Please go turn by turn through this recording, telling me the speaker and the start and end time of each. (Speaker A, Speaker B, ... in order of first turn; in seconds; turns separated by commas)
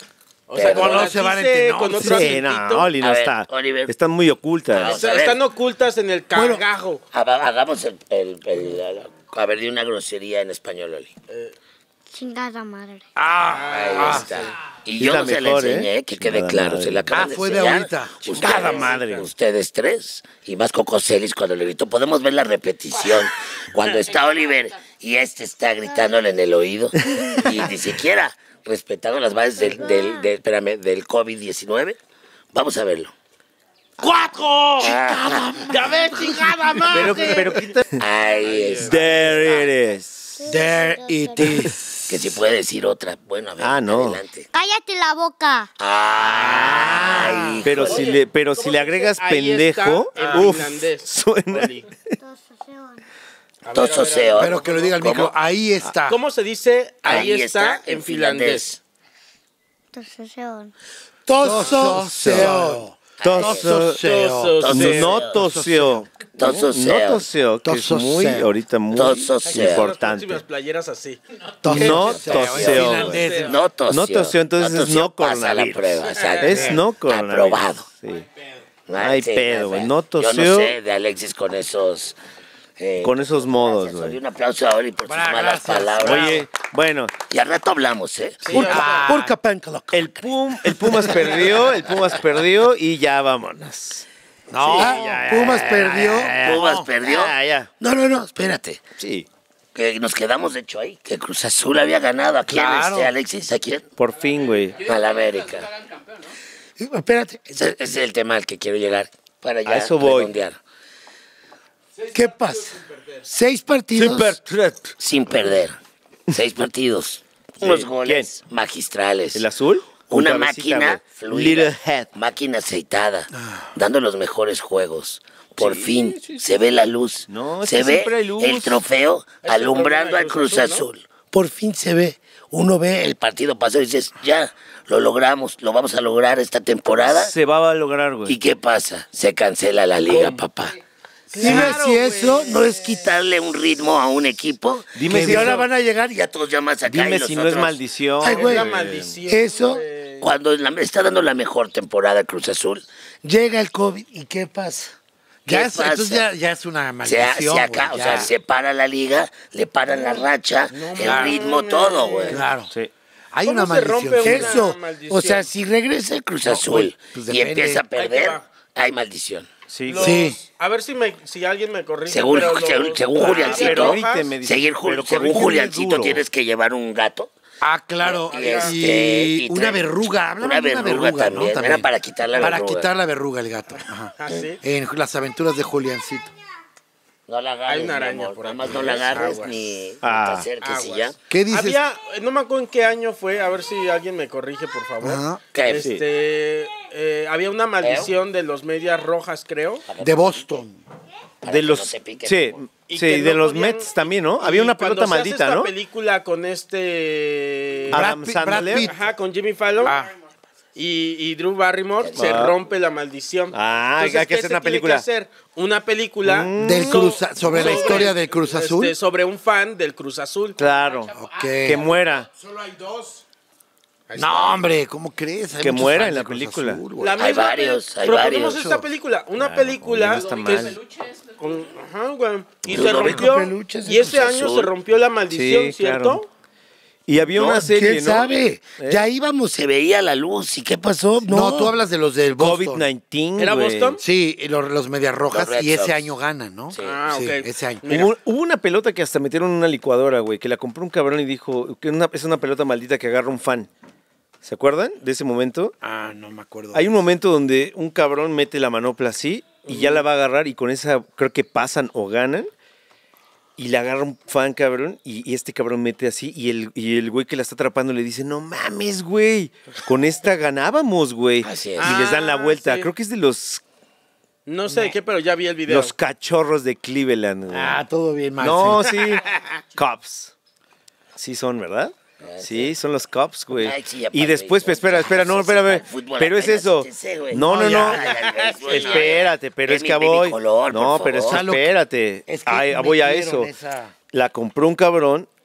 Speaker A: 0.5-2.9, Speaker B: 0.5-1.1, Speaker C: 0.6-2.4, Speaker D: 2.0-5.0, Speaker B: 3.0-3.9, Speaker B: 4.7-5.4, Speaker A: 4.8-7.0, Speaker C: 6.3-6.7, Speaker B: 7.1-11.1, Speaker A: 11.3-11.6, Speaker E: 12.1-13.1, Speaker C: 13.2-14.3, Speaker A: 13.4-14.5, Speaker B: 13.7-32.0, Speaker D: 15.0-17.1, Speaker C: 17.1-18.6, Speaker A: 18.4-19.3, Speaker D: 18.4-19.3, Speaker D: 27.1-27.7, Speaker E: 29.6-30.3, Speaker B: 32.5-33.1, Speaker A: 34.0-35.0, Speaker B: 34.8-35.7, Speaker C: 35.0-36.4, Speaker A: 35.5-37.7, Speaker D: 36.9-38.0, Speaker B: 38.0-39.3, Speaker A: 38.3-39.7, Speaker D: 38.8-40.4, Speaker E: 40.4-41.7, Speaker C: 40.5-42.4, Speaker D: 41.4-41.6, Speaker B: 42.1-44.5, Speaker D: 43.6-44.2, Speaker E: 44.5-45.7, Speaker B: 45.8-48.1, Speaker D: 46.2-52.2, Speaker C: 46.6-47.6, Speaker A: 47.8-51.9, Speaker F: 50.1-50.5, Speaker E: 52.2-53.0, Speaker A: 53.6-55.0, Speaker B: 53.7-55.3, Speaker C: 54.4-56.2, Speaker A: 56.1-58.7, Speaker B: 57.0-58.8, Speaker E: 59.9-60.7, Speaker C: 61.3-66.1, Speaker A: 61.4-62.6, Speaker D: 61.5-64.0, Speaker B: 63.2-63.7, Speaker A: 63.9-65.2, Speaker B: 64.6-65.4, Speaker D: 64.7-70.4, Speaker B: 66.3-67.3, Speaker C: 67.6-68.5, Speaker B: 68.9-69.9, Speaker A: 69.5-73.6, Speaker C: 71.6-73.6, Speaker D: 71.7-73.3, Speaker B: 71.8-77.9, Speaker D: 73.9-78.3, Speaker A: 76.1-76.8, Speaker C: 76.5-76.8, Speaker B: 78.9-82.2, Speaker D: 79.0-80.8, Speaker B: 82.8-86.4, Speaker D: 83.0-84.2, Speaker C: 85.0-86.5, Speaker D: 86.0-87.1, Speaker B: 87.3-89.0, Speaker A: 88.4-89.3, Speaker C: 88.5-91.3, Speaker D: 89.9-94.0, Speaker C: 94.5-96.9, Speaker D: 94.6-97.7, Speaker B: 96.3-98.8, Speaker D: 99.0-99.3, Speaker B: 99.8-103.9, Speaker C: 102.5-103.1, Speaker D: 104.0-104.9, Speaker B: 104.8-105.7, Speaker C: 106.8-107.5, Speaker B: 107.2-110.6, Speaker D: 109.7-110.3, Speaker F: 112.0-113.3, Speaker C: 112.1-114.4, Speaker D: 113.9-114.9, Speaker B: 115.0-119.5, Speaker D: 117.6-118.3, Speaker D: 119.3-122.1, Speaker B: 120.1-137.3, Speaker D: 125.6-126.4, Speaker D: 127.3-128.8, Speaker A: 129.4-130.8, Speaker D: 137.0-138.4, Speaker B: 138.3-140.8, Speaker A: 140.1-140.4, Speaker A: 141.3-142.8, Speaker C: 141.3-143.0, Speaker B: 141.4-141.8, Speaker B: 142.3-148.7, Speaker D: 144.9-145.7, Speaker C: 145.0-145.9, Speaker D: 146.9-149.2, Speaker A: 148.2-150.3, Speaker B: 149.3-154.9, Speaker C: 155.5-158.3, Speaker B: 155.5-156.3, Speaker B: 157.0-162.4, Speaker A: 160.7-162.5, Speaker C: 161.0-161.4, Speaker C: 162.3-162.7, Speaker C: 163.3-164.8, Speaker A: 163.4-165.5, Speaker B: 164.2-169.5, Speaker C: 166.4-167.8, Speaker A: 167.9-168.4, Speaker D: 169.7-170.3, Speaker A: 169.9-174.3, Speaker C: 169.9-170.4, Speaker B: 172.1-177.3, Speaker D: 173.2-176.2, Speaker C: 177.6-186.3, Speaker B: 178.0-182.9, Speaker A: 178.3-178.8, Speaker A: 184.2-184.6, Speaker B: 187.3-191.2, Speaker A: 187.7-189.6, Speaker D: 190.0-190.5, Speaker A: 190.6-199.8, Speaker C: 191.3-191.8, Speaker C: 195.0-195.4, Speaker B: 195.5-195.9, Speaker B: 197.8-198.1, Speaker B: 199.9-200.5, Speaker C: 200.0-200.8, Speaker B: 201.4-202.6, Speaker D: 201.5-205.7, Speaker A: 202.9-208.1, Speaker D: 207.9-208.9, Speaker C: 207.9-209.0, Speaker A: 208.7-210.1, Speaker C: 209.9-210.1, Speaker A: 210.8-220.6, Speaker B: 212.0-212.5, Speaker D: 212.2-212.6, Speaker D: 213.5-215.1, Speaker D: 216.2-217.2, Speaker C: 216.6-219.0, Speaker D: 220.6-222.3, Speaker C: 221.1-221.9, Speaker F: 222.3-223.2, Speaker A: 224.1-224.6, Speaker C: 224.2-227.3, Speaker D: 225.6-226.8, Speaker A: 227.0-236.3, Speaker B: 227.2-228.7, Speaker C: 228.3-228.9, Speaker D: 229.4-230.8, Speaker B: 232.7-234.7, Speaker D: 232.7-233.1, Speaker D: 235.3-236.2, Speaker D: 237.1-239.1, Speaker B: 237.3-241.8, Speaker C: 237.4-238.4, Speaker C: 241.2-242.9, Speaker D: 242.4-244.0, Speaker A: 243.4-244.0, Speaker C: 244.0-247.9, Speaker B: 245.3-246.1, Speaker B: 246.7-247.0, Speaker A: 246.8-248.1, Speaker D: 247.9-253.7, Speaker D: 254.4-255.7, Speaker C: 255.8-256.9, Speaker D: 256.7-262.5, Speaker A: 259.7-260.0, Speaker D: 263.6-273.6, Speaker B: 271.4-272.0, Speaker A: 271.8-272.9, Speaker A: 274.5-275.9, Speaker D: 275.7-277.8, Speaker C: 277.5-279.0, Speaker D: 278.4-280.3, Speaker A: 279.0-279.4, Speaker D: 281.2-293.5, Speaker B: 282.2-282.8, Speaker B: 283.5-291.5, Speaker C: 287.4-288.0, Speaker A: 288.3-289.1, Speaker C: 291.3-291.7, Speaker C: 292.3-293.9, Speaker D: 294.1-295.3